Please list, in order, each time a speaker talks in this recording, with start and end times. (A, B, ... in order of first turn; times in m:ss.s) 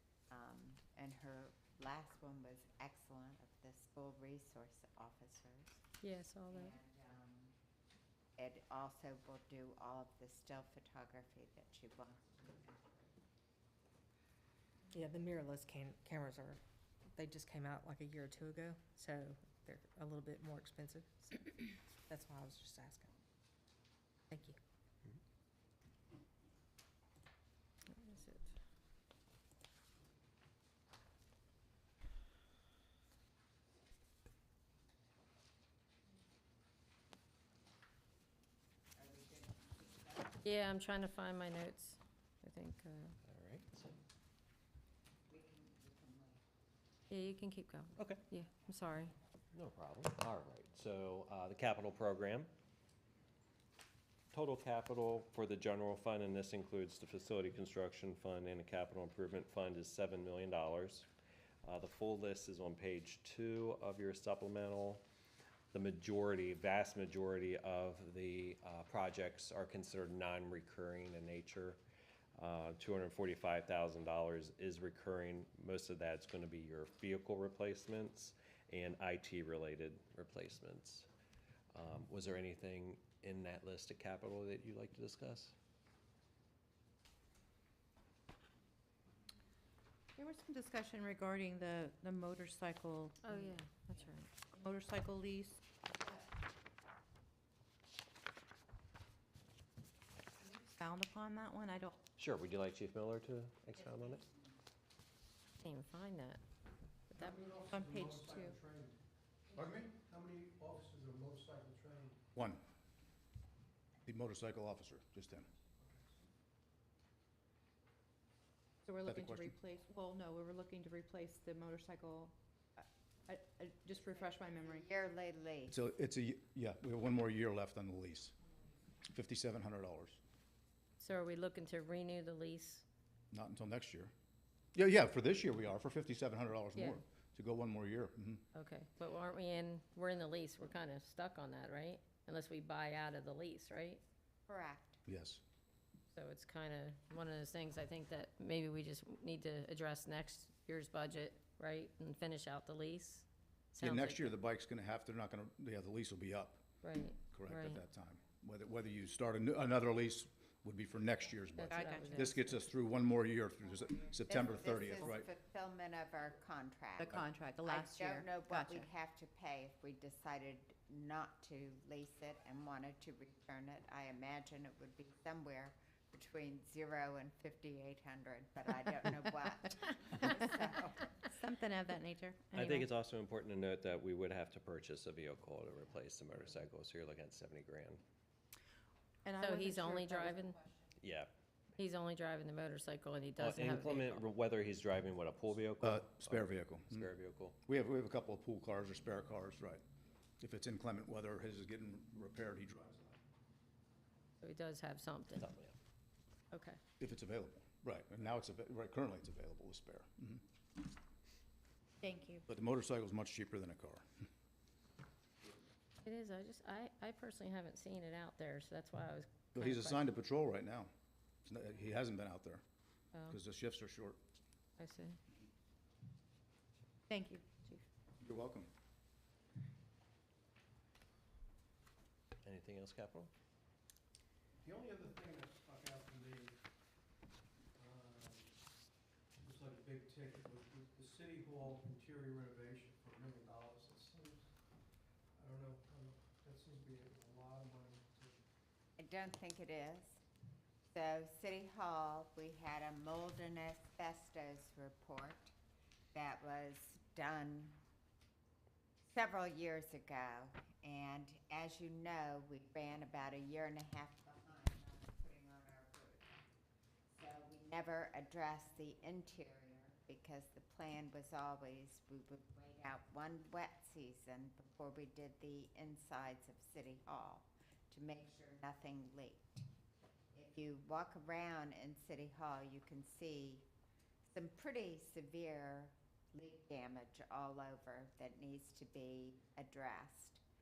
0:00.3-0:05.8 A
0:06.0-0:06.8 B
0:06.5-0:07.5 A
0:08.4-0:13.1 A
0:14.9-0:16.6 C
0:17.1-0:23.1 C
0:24.3-0:24.6 C
0:27.9-0:28.5 B
0:39.0-0:40.4 A
0:40.4-0:43.2 B
0:43.2-0:43.9 D
0:45.3-0:46.4 A
0:47.1-0:49.1 B
0:48.0-0:48.2 D
0:49.5-0:52.5 D
0:54.3-1:01.1 D
1:01.6-1:05.0 D
1:05.7-1:11.8 D
1:12.4-1:21.1 D
1:21.7-1:25.5 D
1:30.2-1:33.6 E
1:33.2-1:34.3 B
1:34.5-1:35.6 E
1:40.6-1:42.0 E
1:42.2-1:44.2 D
1:45.6-1:46.4 B
1:47.1-1:47.5 B
1:47.1-1:49.0 F
1:47.7-1:48.6 E
1:49.5-1:49.9 G
1:49.9-1:52.2 F
1:52.3-1:52.6 G
1:54.0-1:55.5 G
1:58.8-2:04.8 E
1:59.0-1:59.5 G
2:03.9-2:05.8 A
2:05.7-2:08.3 G
2:09.1-2:10.2 G
2:11.0-2:12.8 B
2:13.3-2:14.1 G
2:14.7-2:18.4 G
2:18.5-2:24.0 B
2:24.5-2:25.0 A
2:25.1-2:25.4 G
2:26.1-2:34.3 B
2:33.8-2:36.6 G
2:36.8-2:37.8 B
2:37.3-2:45.3 G
2:41.6-2:42.6 B
2:41.7-2:42.2 E
2:44.2-3:01.2 A
2:47.0-2:48.9 E
3:01.2-3:02.8 E
3:02.5-3:08.0 D
3:09.2-3:10.7 E
3:09.4-3:10.6 B
3:11.0-3:11.3 D
3:11.8-3:14.2 B
3:13.4-3:17.6 D
3:15.8-3:17.1 G
3:17.6-3:19.8 G
3:20.4-3:23.2 G
3:24.4-3:25.5 B
3:25.4-3:25.7 D
3:26.5-3:26.8 B
3:27.0-3:30.4 G
3:32.0-3:32.4 E
3:32.5-3:34.0 G
3:36.0-3:40.0 B
3:39.5-3:40.9 G
3:41.4-3:42.6 G
3:43.1-3:43.4 B
3:43.3-3:44.2 G
3:44.8-3:45.2 B
3:47.1-3:47.8 B
3:48.2-3:48.7 G
3:52.4-3:53.3 D
3:54.6-3:56.6 F
3:57.8-3:58.6 F
3:59.4-4:04.5 F
4:05.4-4:08.4 F
4:09.0-4:10.2 A
4:10.9-4:15.5 A
4:16.1-4:17.8 A
4:19.0-4:26.4 A
4:27.1-4:39.6 A
4:40.3-4:43.7 A
4:44.3-4:50.4 A